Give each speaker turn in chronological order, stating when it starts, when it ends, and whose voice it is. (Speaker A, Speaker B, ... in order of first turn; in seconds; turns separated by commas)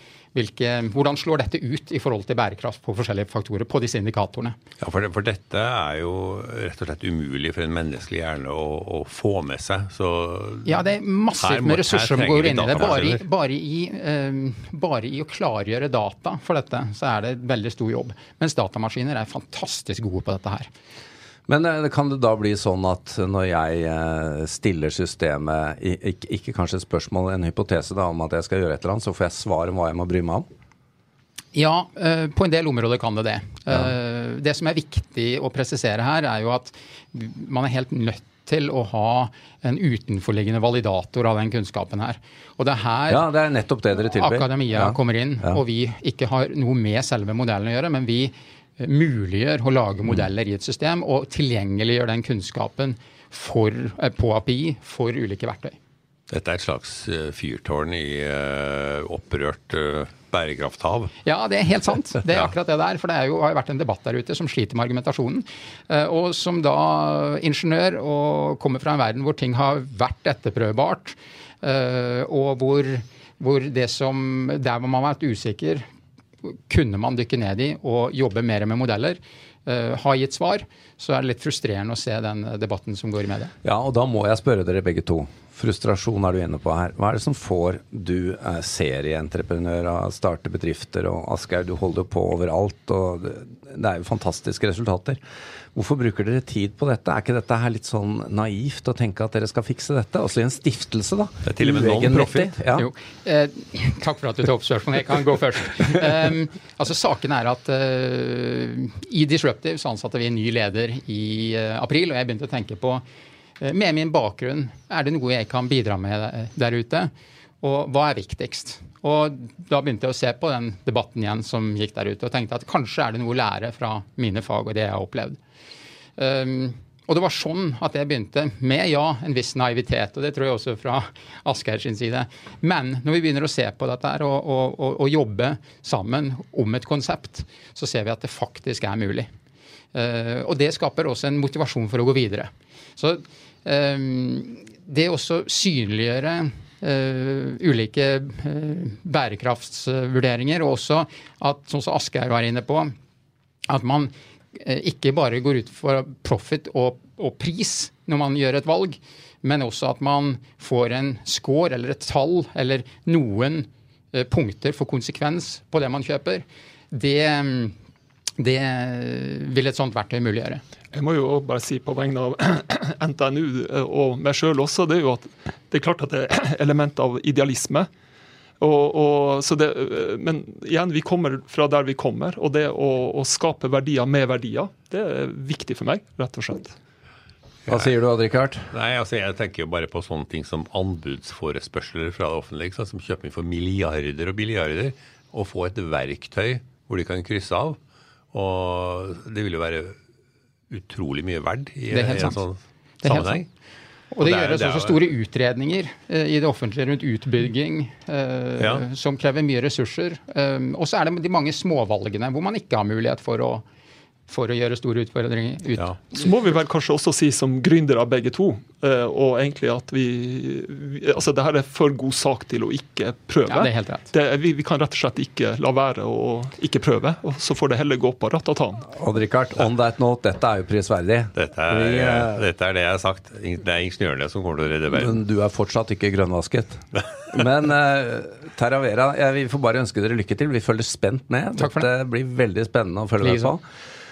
Speaker A: 0.3-4.5, Speaker B: 4.8-10.8, Speaker A: 10.7-20.7, Speaker B: 11.4-13.2, Speaker C: 21.5-30.4, Speaker A: 31.5-43.2, Speaker C: 43.1-45.6, Speaker A: 44.1-55.8, Speaker B: 56.3-61.1, Speaker A: 61.2-75.8, Speaker A: 76.4-83.5, Speaker C: 83.6-95.2, Speaker C: 95.7-102.9, Speaker B: 101.4-102.5, Speaker A: 102.7-113.0, Speaker A: 113.6-125.4, Speaker A: 126.2-139.3, Speaker A: 139.9-152.9, Speaker A: 153.7-167.7, Speaker A: 168.4-170.6, Speaker D: 170.9-177.9, Speaker D: 178.6-186.8, Speaker B: 187.7-187.9, Speaker C: 187.7-188.7, Speaker B: 188.7-197.8, Speaker B: 198.3-199.9, Speaker B: 200.7-203.5, Speaker A: 201.9-202.4, Speaker A: 203.0-203.4, Speaker A: 204.1-213.6, Speaker B: 204.2-205.0, Speaker B: 208.6-208.8, Speaker A: 214.3-216.3, Speaker D: 216.1-228.9, Speaker A: 223.5-224.1, Speaker C: 228.9-232.4, Speaker B: 231.3-235.2, Speaker C: 234.9-243.6, Speaker A: 241.6-241.9, Speaker A: 243.2-243.5